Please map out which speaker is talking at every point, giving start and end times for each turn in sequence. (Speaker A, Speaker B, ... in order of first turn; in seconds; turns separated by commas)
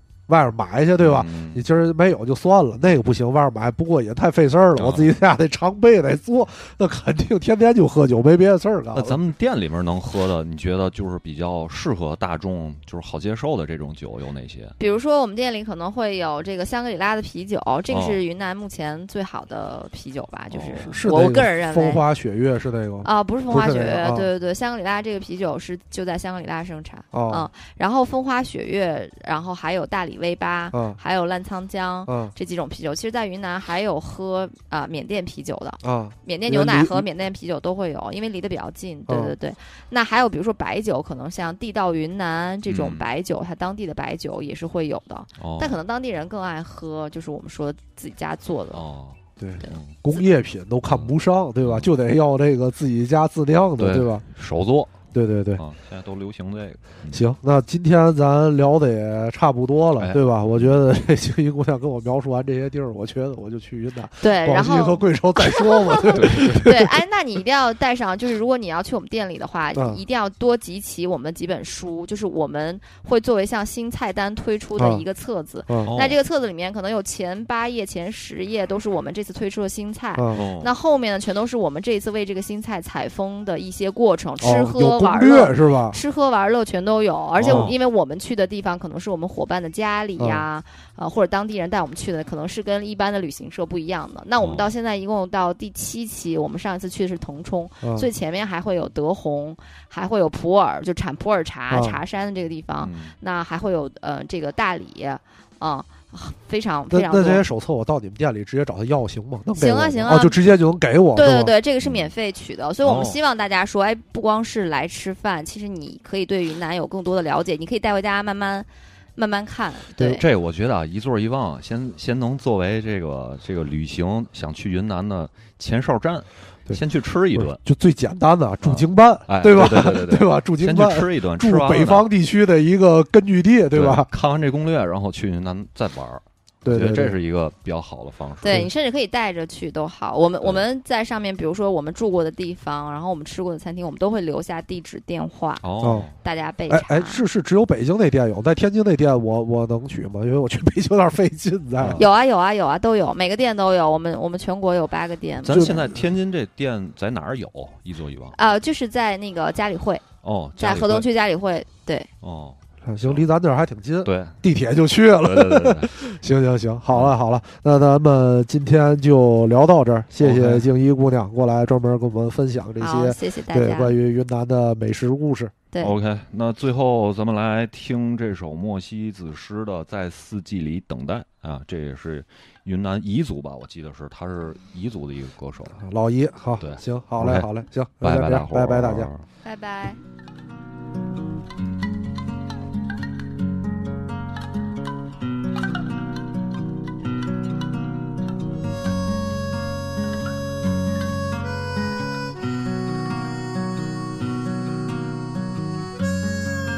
Speaker A: 0.3-9.2, Speaker B: 1.0-1.6, Speaker B: 4.8-5.1, Speaker B: 8.9-14.8, Speaker C: 14.8-22.0, Speaker B: 17.9-18.2, Speaker B: 20.5-21.0, Speaker A: 20.9-24.3, Speaker C: 23.0-48.8, Speaker A: 27.1-27.5, Speaker A: 30.7-31.0, Speaker A: 32.1-32.3, Speaker A: 35.8-37.0, Speaker A: 39.1-39.3, Speaker B: 42.7-43.0, Speaker B: 45.4-45.8, Speaker B: 48.7-49.9, Speaker A: 49.4-54.2, Speaker B: 50.9-51.9, Speaker B: 53.8-55.0, Speaker A: 55.1-55.6, Speaker B: 55.6-57.2, Speaker A: 57.1-66.9, Speaker B: 60.0-60.8, Speaker C: 64.2-107.4, Speaker B: 66.1-66.6, Speaker A: 69.7-70.0, Speaker A: 74.8-75.0, Speaker A: 75.7-75.9, Speaker B: 75.8-76.2, Speaker A: 80.2-80.5, Speaker B: 80.3-80.7, Speaker A: 84.4-86.0, Speaker B: 87.4-87.7, Speaker A: 87.4-87.7, Speaker A: 90.2-90.4, Speaker B: 94.4-94.7, Speaker A: 97.8-98.1, Speaker A: 101.7-102.0, Speaker B: 102.8-103.1, Speaker A: 106.9-111.5, Speaker C: 109.5-110.4, Speaker C: 111.1-120.2, Speaker B: 111.8-112.1, Speaker B: 112.8-113.2, Speaker B: 120.2-127.6, Speaker A: 127.3-134.1, Speaker B: 128.6-132.1, Speaker B: 133.7-138.6, Speaker A: 136.6-137.2, Speaker C: 138.4-145.6, Speaker B: 145.6-146.1, Speaker A: 145.8-146.1, Speaker C: 146.2-147.2, Speaker A: 146.7-152.0, Speaker B: 151.8-152.0, Speaker C: 151.9-155.9, Speaker B: 155.4-158.3, Speaker A: 155.5-156.0, Speaker C: 158.3-160.0, Speaker B: 160.2-161.1, Speaker C: 160.6-162.1, Speaker B: 162.2-163.2, Speaker A: 162.8-175.5, Speaker B: 164.0-164.4, Speaker B: 165.2-165.9, Speaker B: 170.2-170.7, Speaker C: 172.8-173.9, Speaker B: 175.8-185.8, Speaker A: 185.8-189.1, Speaker B: 186.6-187.5, Speaker B: 188.0-189.2, Speaker C: 189.4-190.0